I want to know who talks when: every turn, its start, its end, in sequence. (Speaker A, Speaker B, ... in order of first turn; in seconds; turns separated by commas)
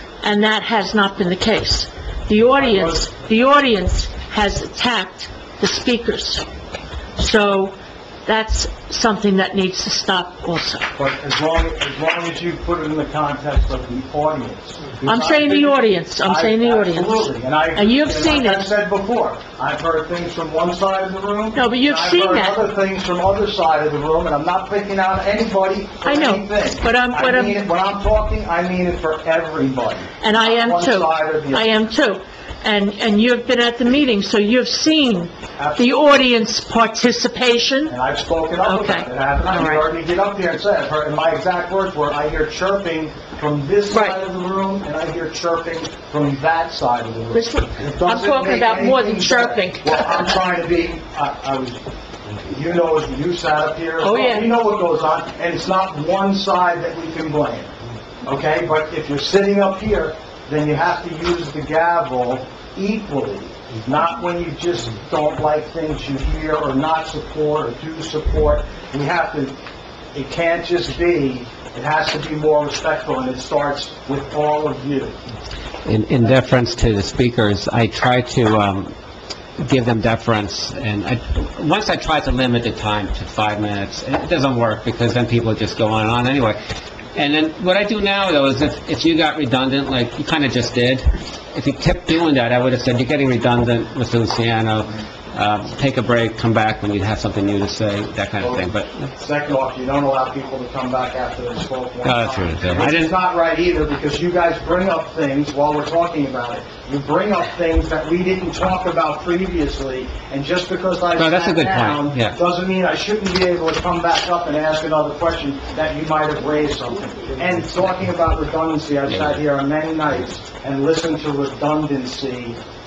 Speaker A: 0.2-6.5, Speaker B: 2.6-3.1, Speaker A: 7.2-10.8, Speaker B: 11.0-31.7, Speaker A: 15.1-18.7, Speaker A: 21.5-22.6, Speaker A: 26.1-27.6, Speaker A: 30.2-37.9, Speaker B: 35.6-35.9, Speaker B: 37.9-51.8, Speaker A: 38.6-39.9, Speaker A: 43.9-44.2, Speaker A: 47.3-50.2, Speaker B: 52.5-57.7, Speaker A: 54.0-54.5, Speaker B: 58.2-69.5, Speaker B: 70.1-75.2, Speaker C: 75.9-78.9, Speaker C: 79.6-86.6, Speaker C: 87.2-99.0, Speaker B: 98.4-122.6, Speaker C: 102.0-103.1, Speaker C: 111.2-112.4, Speaker C: 119.1-119.4